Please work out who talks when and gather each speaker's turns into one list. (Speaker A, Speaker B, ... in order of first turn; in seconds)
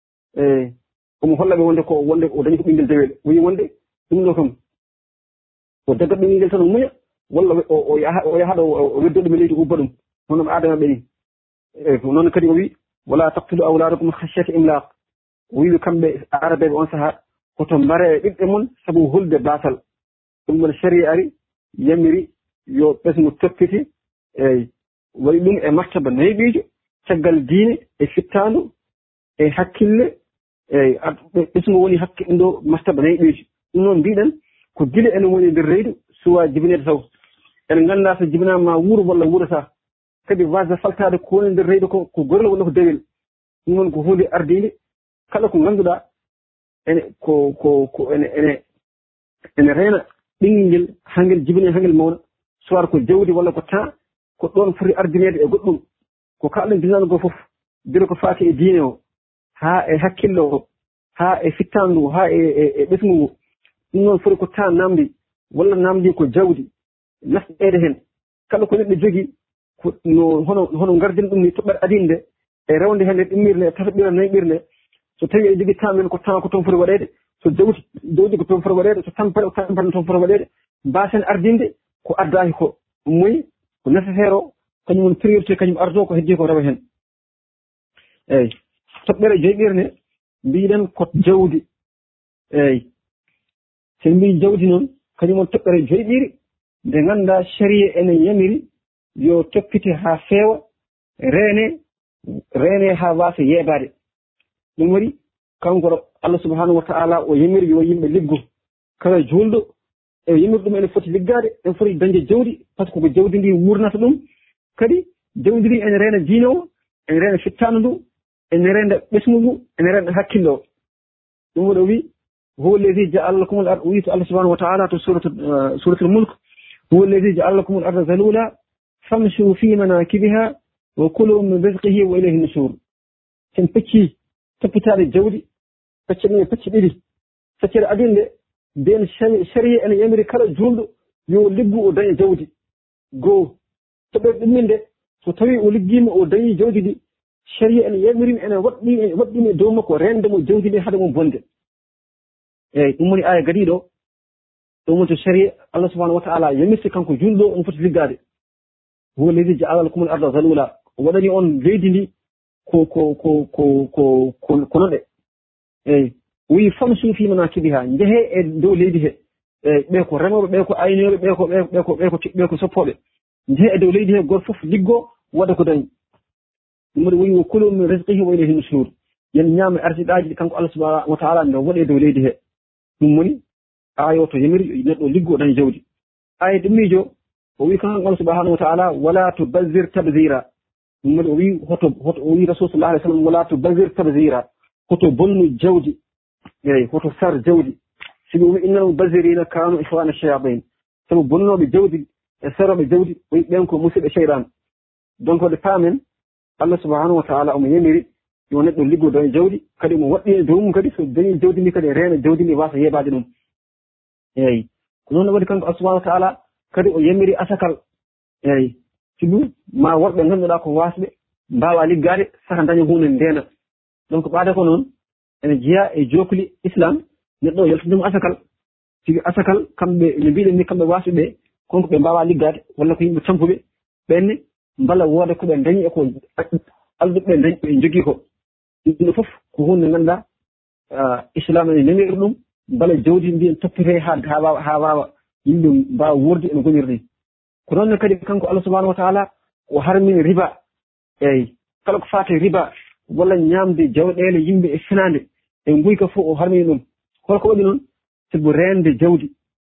Speaker A: 0.4-4.5, 5.9-11.0, 11.8-14.9, 15.5-19.8, 20.5-21.3, 21.8-23.9, 24.4-24.7, 25.2-28.7, 29.4-30.1, 30.7-37.0, 37.7-39.7, 40.3-43.0, 43.7-44.7, 45.3-46.0, 46.9-48.6, 49.6-55.8, 56.4-59.0, 59.6-60.6, 61.2-63.3, 63.9-66.7, 67.2-68.0, 68.5-69.3, 69.8-74.6, 75.2-86.8, 88.3-89.9, 90.5-91.6, 92.5-92.8, 94.0-96.3, 96.8-98.6, 99.2-100.6, 101.2-101.8, 102.5-103.9, 104.8-108.4, 109.0-109.7, 110.3-114.2, 114.8-118.0, 118.5-120.6, 121.5-122.1, 122.6-126.3, 126.9-128.5, 129.1-132.8, 133.5-135.4, 136.1-137.0, 137.6-138.3, 138.8-142.5, 143.2-143.5, 144.1-147.0, 147.5-151.4, 152.7-153.8, 154.9-158.2, 159.2-162.1, 162.7-165.0, 165.9-173.0, 173.5-175.9, 176.9-182.3, 183.0-183.4, 184.0-185.8, 186.4-190.4, 191.0-196.0, 196.6-197.8, 198.3-204.5, 205.2-206.0, 206.6-213.2, 214.4-217.8, 218.4-223.4, 224.1-224.9, 225.4-228.4, 229.0-238.2, 238.8-240.2, 240.9-247.0, 247.7-250.5, 251.2-259.3